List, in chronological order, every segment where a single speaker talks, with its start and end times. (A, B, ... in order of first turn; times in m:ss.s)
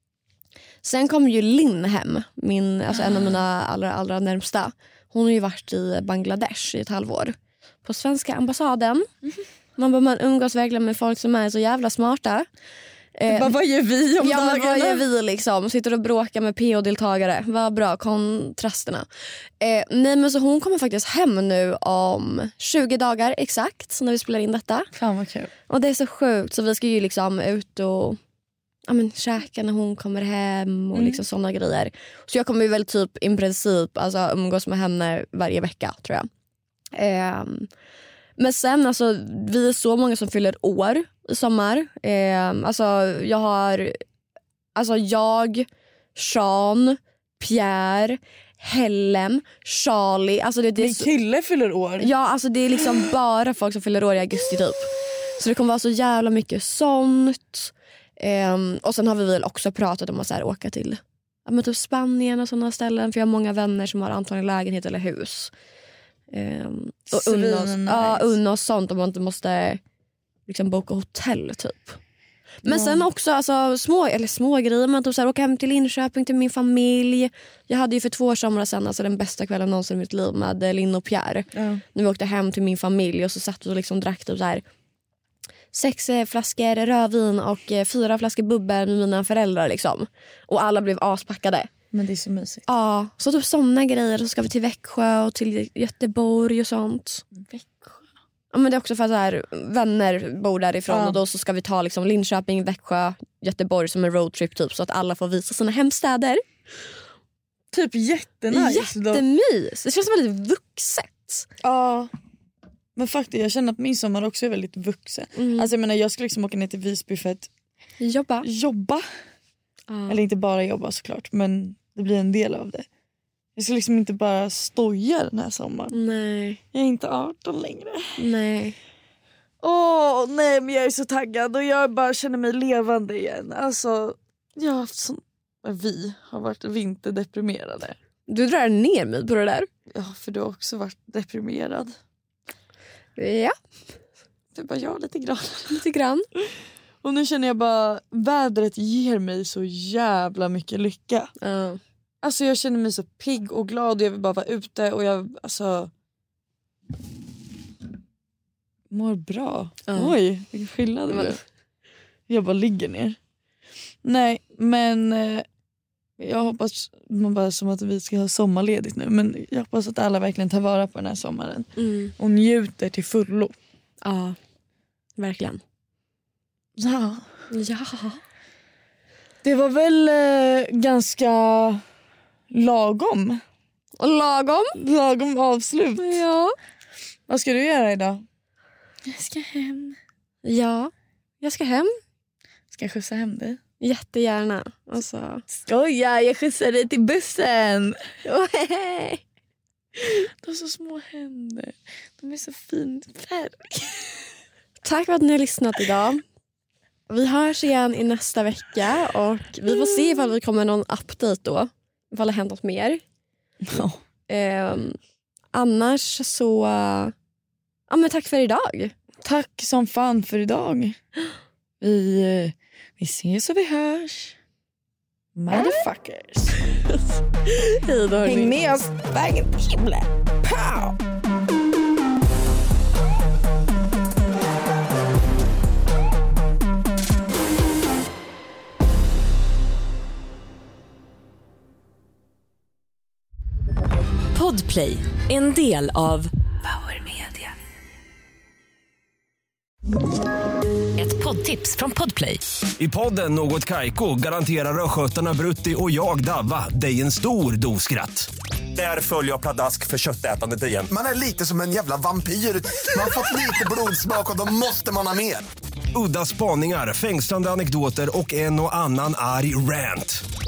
0:00.8-0:09.1 A
0:02.9-0:03.3 B
0:09.8-0:12.4 A
0:13.1-0:13.5 A
0:13.3-0:15.0 B
0:14.2-0:19.1 A
0:19.6-0:24.9 A
0:24.9-0:25.5 B
0:25.7-0:28.2 A
0:28.9-0:36.3 A
0:30.9-0:31.2 B
0:37.0-0:37.7 A
0:38.4-0:44.0 A
0:44.7-0:51.1 A
0:50.8-0:52.1 B
0:52.0-1:05.5 A
1:06.3-1:09.8 A
1:07.1-1:08.4 B
1:10.5-1:12.0 A
1:12.6-1:24.6 A
1:12.6-1:13.0 B
1:21.5-1:21.8 B
1:25.7-1:31.7 A
1:31.9-1:32.6 B
1:32.7-1:37.2 A
1:37.4-1:38.0 B
1:38.5-1:46.4 A
1:40.9-1:41.2 B
1:47.7-1:49.2 B
1:48.5-1:51.4 A
1:51.6-1:52.1 B
1:53.0-1:57.5 B
1:55.4-1:55.7 A
1:58.0-1:58.5 A
1:58.4-1:59.0 B
1:59.9-2:00.2 A
2:00.1-2:02.9 B
2:03.6-2:06.0 B
2:05.9-2:06.6 A
2:06.7-2:08.2 B
2:08.2-2:08.8 A
2:09.6-2:18.0 B
2:18.3-2:19.7 A
2:19.9-2:22.0 B
2:23.2-2:23.6 A
2:24.5-2:25.8 B
2:25.7-2:26.3 A
2:27.0-2:31.3 B
2:31.4-2:31.8 A
2:32.2-2:35.9 B
2:38.9-2:41.4 B
2:39.9-2:40.1 A
2:41.1-2:41.4 A
2:42.3-2:43.2 B
2:44.0-2:45.4 B
2:46.2-2:53.5 B
2:51.8-2:52.1 A
2:54.0-2:54.4 A
2:55.2-2:55.6 A
2:56.8-2:57.3 B
2:57.5-2:58.2 A
2:59.4-3:01.8 B
3:02.5-3:03.4 B
3:04.0-3:04.8 A
3:04.7-3:06.2 B
3:06.0-3:06.5 A
3:07.3-3:08.2 B
3:09.1-3:10.0 B
3:10.4-3:11.9 A
3:12.7-3:13.6 B
3:13.8-3:15.4 A
3:15.5-3:18.0 B
3:18.2-3:19.2 A
3:20.1-3:24.1 B
3:24.8-3:26.2 A
3:27.1-3:33.0 A
3:33.6-3:34.0 B
3:34.3-3:35.0 A
3:35.5-3:37.1 A
3:37.9-3:38.9 A
3:39.2-3:41.0 B
3:41.8-3:44.4 B
3:45.4-3:46.6 B
3:45.5-3:45.8 A
3:47.4-3:48.6 A
3:48.2-3:51.0 B
4:04.3-4:07.5 C
4:11.0-4:12.4 C
4:12.8-4:20.9 D
4:20.9-4:25.5 E
4:25.9-4:30.2 D